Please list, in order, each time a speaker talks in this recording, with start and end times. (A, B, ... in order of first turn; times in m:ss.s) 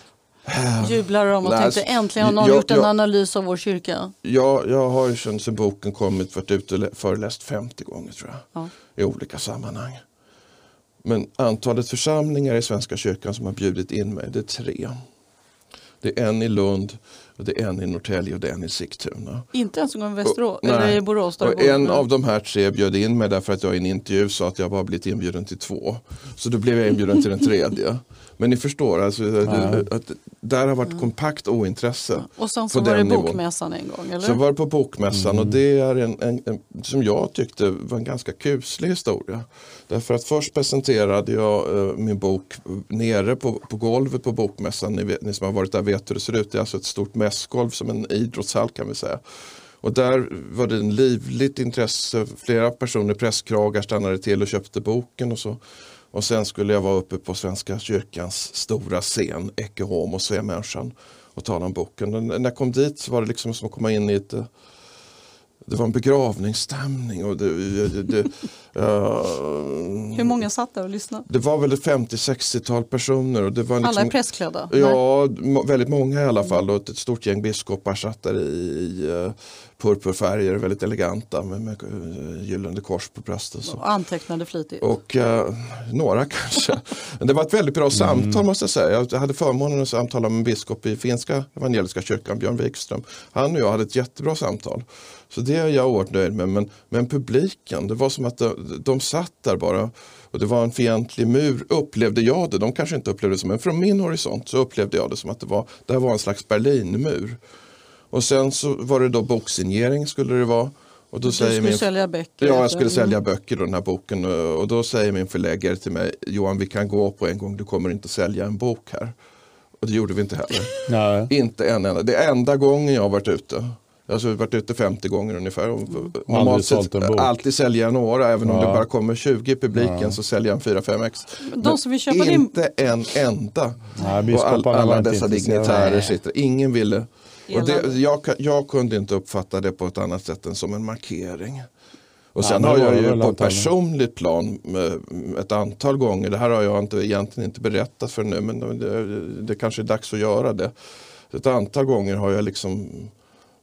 0:00.4-0:02.9 A
0:00.8-0:04.1 B
0:04.2-0:10.0 A
0:11.0-0:15.0 A
0:16.0-0:19.4 A
0:19.5-0:22.0 B
0:20.2-0:33.4 A
0:29.4-0:29.8 C
0:32.2-0:34.4 B
0:34.2-0:49.2 A
0:35.1-0:35.5 C
0:49.8-0:55.6 A
0:56.1-1:04.5 A
1:05.6-1:10.4 A
1:10.1-1:11.2 B
1:11.3-1:14.1 A
1:13.8-1:15.0 B
1:14.7-1:23.8 A
1:23.6-1:24.8 B
1:24.8-1:47.4 A
1:27.9-1:28.4 C
1:48.1-1:51.8 A
1:51.2-1:53.2 B
1:52.4-1:59.1 A
1:59.8-2:00.7 A
2:00.9-2:01.3 C
2:01.3-2:21.6 A
2:06.3-2:07.4 C
2:08.4-2:08.8 C
2:09.7-2:10.2 C
2:11.4-2:12.5 B
2:14.0-2:16.0 C
2:15.7-2:16.1 B
2:17.5-2:18.0 B
2:22.3-2:30.7 A
2:22.4-2:23.7 C
2:31.3-2:33.1 A